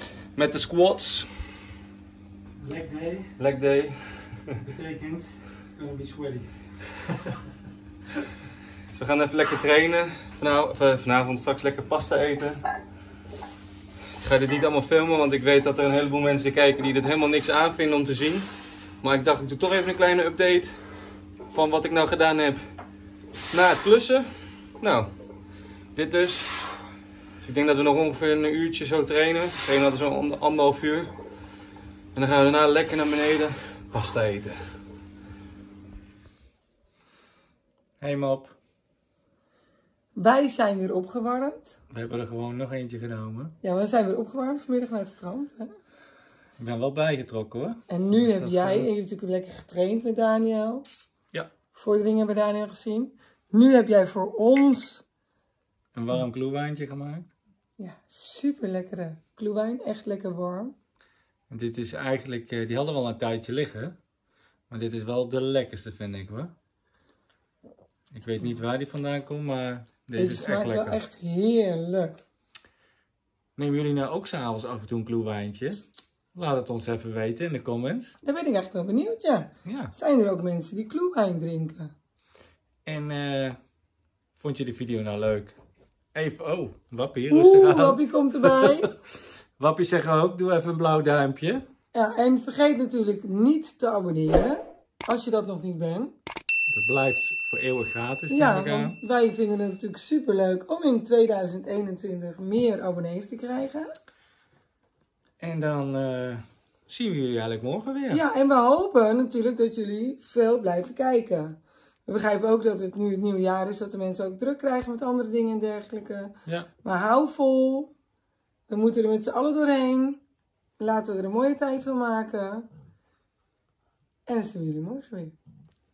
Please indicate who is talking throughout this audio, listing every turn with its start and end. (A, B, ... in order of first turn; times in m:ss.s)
0:00.3-0:01.6 A
0:02.6-0:03.3 B
0:03.4-0:04.5 A
0:04.6-0:06.9 B
0:08.9-0:12.6 A
0:14.2-0:20.9 A
0:21.5-0:22.6 A
0:23.5-0:25.1 A
0:25.9-0:26.8 A
0:27.4-0:31.1 A
0:32.1-0:34.6 A
0:38.0-0:38.5 B
0:40.2-0:41.8 C
0:41.9-0:43.5 B
0:43.6-0:45.7 C
0:46.6-0:48.9 B
0:47.9-0:50.8 C
0:51.8-0:55.0 C
0:55.9-0:57.3 B
0:57.8-1:00.7 C
1:01.5-1:04.0 B
1:04.7-1:06.5 B
1:08.1-1:11.0 B
1:10.2-1:12.2 C
1:13.6-1:15.8 B
1:16.3-1:18.2 B
1:18.2-1:21.9 C
1:19.6-1:19.9 B
1:22.8-1:23.6 B
1:24.4-1:25.6 B
1:26.1-1:29.0 B
1:27.3-1:28.9 C
1:29.6-1:31.6 B
1:31.9-1:36.1 C
1:36.7-1:39.0 B
1:38.3-1:43.9 C
1:45.4-1:48.2 B
1:48.1-1:57.9 C
1:58.7-2:00.2 C
2:00.8-2:02.7 C
2:04.2-2:05.3 C